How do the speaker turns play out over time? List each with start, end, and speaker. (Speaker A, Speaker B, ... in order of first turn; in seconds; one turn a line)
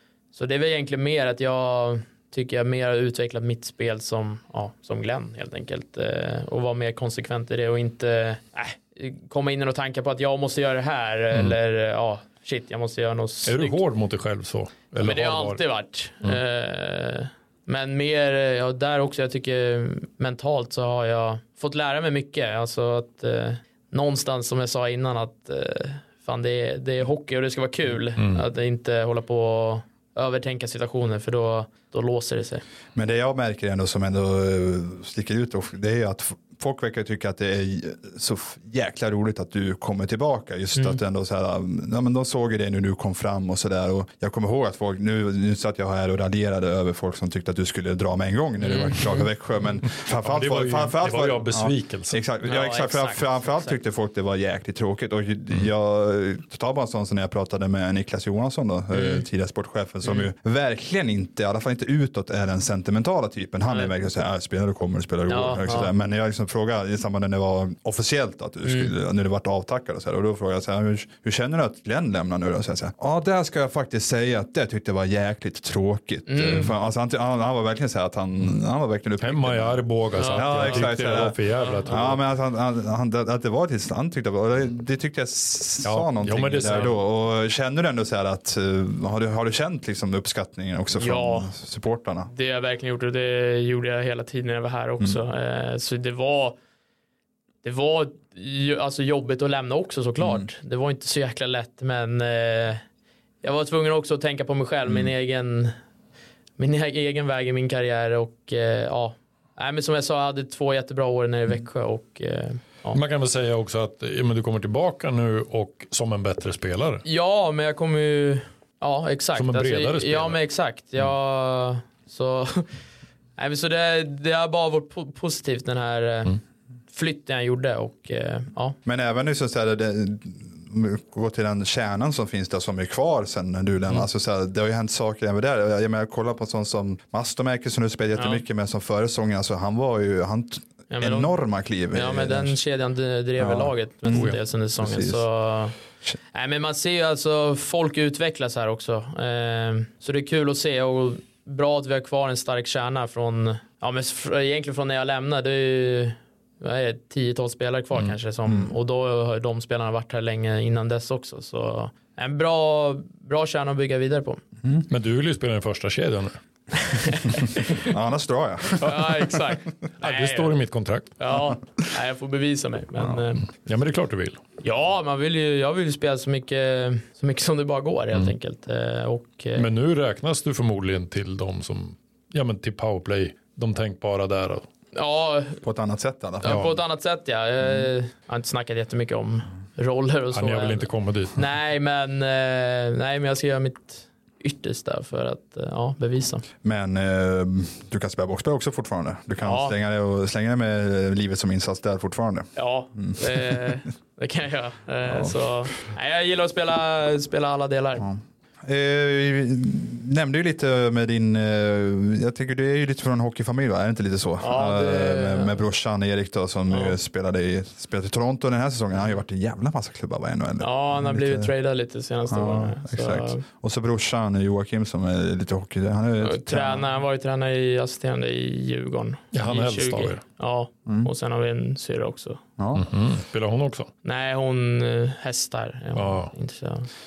Speaker A: 0.3-13.8
Speaker B: 13.5-15.6
Speaker A: 15.0-32.6
Speaker B: 28.2-28.4
Speaker C: 33.0-92.3
Speaker A: 48.6-49.3
Speaker B: 50.0-52.2
Speaker A: 52.4-53.8
Speaker A: 58.9-59.2
Speaker A: 65.3-65.9
Speaker A: 68.7-68.9
Speaker A: 76.3-76.7
Speaker B: 79.2-82.2
Speaker A: 80.2-80.9
Speaker A: 81.6-82.0
Speaker B: 85.8-87.0
Speaker A: 91.0-91.5
Speaker A: 92.3-96.6
Speaker A: 97.6-102.8
Speaker C: 100.2-100.5
Speaker A: 103.4-105.7
Speaker C: 104.9-105.1
Speaker A: 106.6-113.0
Speaker B: 112.9-117.0
Speaker A: 117.0-122.7
Speaker B: 119.4-120.4
Speaker A: 123.4-126.4
Speaker A: 126.9-128.8
Speaker C: 128.8-142.6
Speaker A: 138.2-138.4
Speaker A: 140.9-141.4
Speaker A: 141.9-145.8
Speaker C: 143.4-145.2
Speaker B: 144.1-144.4
Speaker A: 146.3-164.4
Speaker C: 158.5-158.7
Speaker B: 164.9-166.4
Speaker A: 166.7-167.9
Speaker C: 167.6-169.6
Speaker A: 168.8-170.6
Speaker B: 170.0-171.1
Speaker A: 171.2-173.5
Speaker C: 171.3-171.9
Speaker B: 173.7-174.4
Speaker A: 174.6-179.7
Speaker B: 179.6-184.7
Speaker A: 184.9-185.6
Speaker C: 185.6-186.8
Speaker A: 186.4-196.4
Speaker B: 186.5-186.7
Speaker B: 190.3-191.4
Speaker C: 196.6-203.8
Speaker A: 199.4-199.8
Speaker A: 202.6-208.1
Speaker C: 205.1-205.4
Speaker C: 208.0-221.5
Speaker A: 214.4-215.6
Speaker A: 216.7-217.0
Speaker A: 220.6-223.4
Speaker C: 222.3-226.9
Speaker A: 226.2-232.4
Speaker B: 229.3-230.2
Speaker C: 232.6-232.9
Speaker B: 232.8-233.9
Speaker A: 234.1-236.9
Speaker B: 236.0-236.3